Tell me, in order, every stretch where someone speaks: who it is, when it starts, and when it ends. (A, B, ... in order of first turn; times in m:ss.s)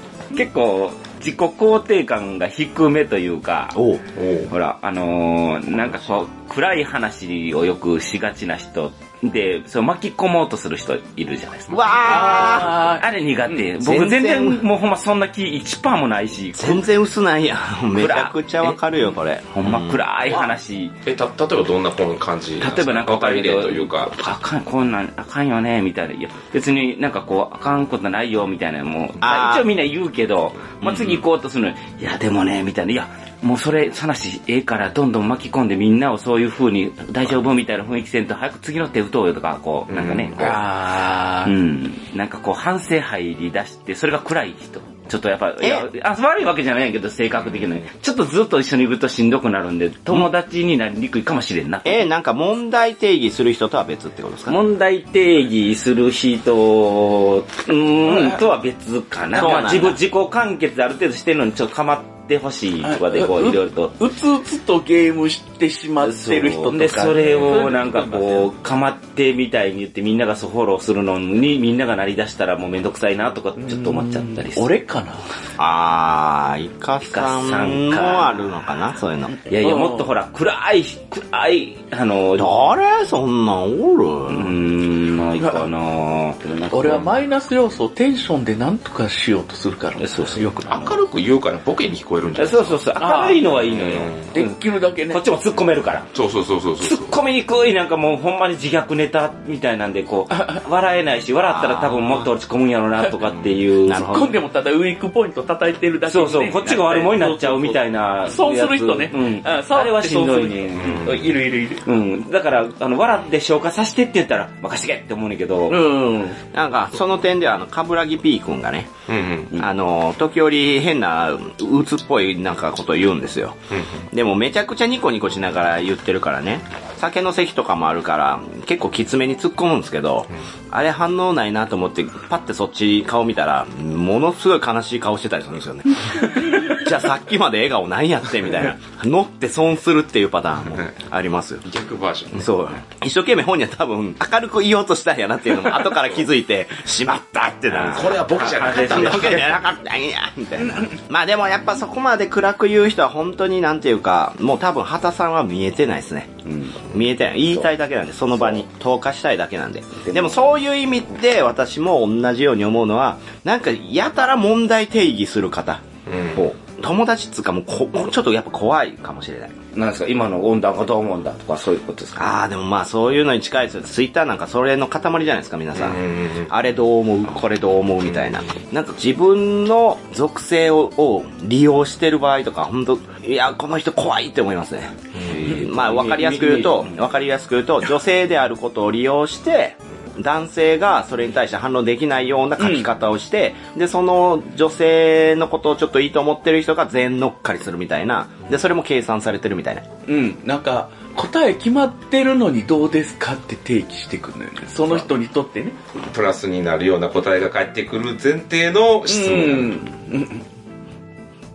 0:00.3-0:03.8 A
0:03.7-0:04.0 B
0:04.1-0:04.5 C
0:04.5-0:16.7 A
0:11.7-0:12.8 B
0:12.0-0:13.0 D
0:13.8-0:14.6 B
0:16.6-0:20.0 B
0:17.9-0:18.8 A
0:19.5-0:20.9 A
0:21.0-0:24.1 C
0:22.6-0:40.6 A
0:29.2-0:29.7 B
0:30.8-0:31.2 B
0:39.9-0:40.6 C
0:40.4-0:41.5 D
0:41.4-0:52.0 A
0:45.6-0:45.9 B
0:47.4-0:47.9 C
0:51.8-0:54.6 B
0:54.5-1:03.9 A
0:58.0-0:58.4 D
0:59.3-1:00.0 B
1:02.8-1:08.5 D
1:06.0-1:14.7 A
1:13.6-1:15.2 D
1:15.6-1:19.4 B
1:17.0-1:18.5 A
1:19.3-1:20.1 D
1:19.5-1:22.5 A
1:22.4-1:24.5 B
1:24.3-1:27.2 A
1:25.4-1:25.7 D
1:26.7-1:31.0 D
1:30.0-1:30.5 A
1:30.7-1:32.8 C
1:32.4-1:34.6 A
1:33.0-1:33.4 D
1:33.4-1:34.3 C
1:34.3-1:35.2 D
1:35.1-1:36.1 A
1:36.1-1:37.2 C
1:36.8-1:44.1 A
1:40.3-1:40.6 D
1:41.4-1:42.3 B
1:43.8-1:44.3 B
1:43.9-1:51.8 D
1:46.0-1:51.1 A
1:50.7-1:51.3 C
1:51.8-1:55.8 A
1:55.7-1:56.4 D
1:56.5-1:58.9 B
1:59.1-1:59.6 C
1:59.5-2:03.6 B
2:03.7-2:04.0 C
2:04.1-2:21.6 B
2:21.6-2:22.5 C
2:22.3-2:36.3 B
2:25.9-2:26.2 C
2:27.7-2:29.5 A
2:27.8-2:29.5 C
2:30.6-2:30.9 D
2:36.4-2:36.8 A
2:36.9-2:49.5 B
2:40.0-2:40.4 A
2:46.0-2:46.4 C
2:49.7-2:52.3 A
2:52.1-3:19.8 B
2:55.7-2:56.5 C
3:05.3-3:07.0 A
3:12.6-3:12.9 D
3:20.1-3:25.8 D
3:26.0-3:29.8 C
3:29.1-3:30.4 D